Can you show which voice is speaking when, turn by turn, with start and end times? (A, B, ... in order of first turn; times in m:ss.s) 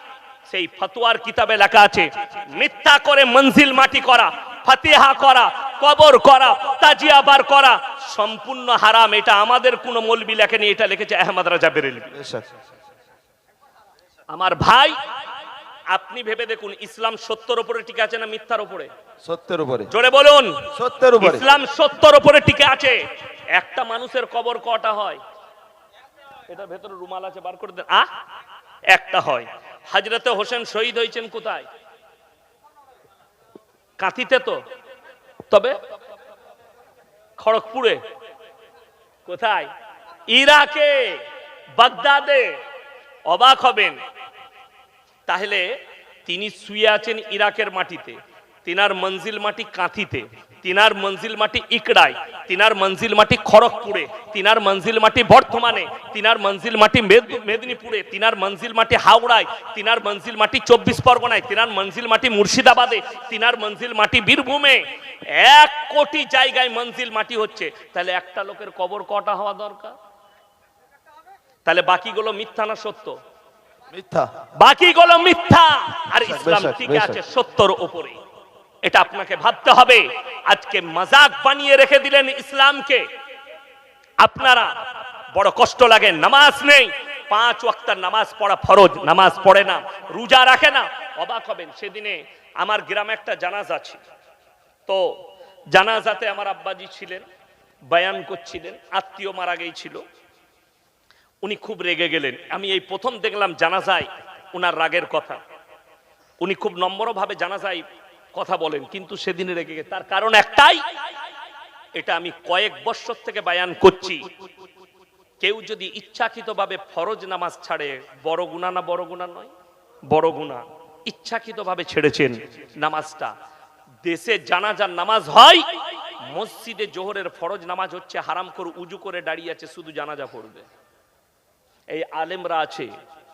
0:00.5-0:12.1 A
0:12.1-0:12.5 B
0:14.3-0:15.0 A
0:15.9-0:18.9 A
0:19.2-0:19.9 B
0:19.9-0:20.7 A
0:20.7-0:21.5 B
0:21.2-0:23.0 A
0:23.5-0:25.2 A
0:26.5-0:28.1 A
0:28.9-0:31.6 A
0:34.0-0:34.6 A
0:35.5-0:35.8 A
0:37.4-0:38.0 A
0:39.2-0:39.7 A
0:40.3-0:41.2 A
0:41.8-0:42.6 A
0:43.2-0:44.0 A
0:45.3-0:45.7 A
0:46.2-1:09.9 A
1:11.6-1:13.2 A
1:13.9-1:14.3 B
1:14.6-1:18.2 A
1:16.2-1:17.2 B
1:18.8-1:23.0 A
1:24.2-1:24.7 A
1:25.3-1:34.0 A
1:34.9-1:35.1 A
1:35.7-1:37.2 A
1:37.9-1:40.0 A
1:41.4-1:45.4 A
1:46.4-1:47.8 A
1:48.3-1:50.8 A
1:52.0-1:54.2 A
1:55.4-1:59.5 A
2:00.1-2:03.3 A
2:04.0-2:05.7 A
2:06.2-2:10.6 A
2:11.9-2:12.9 A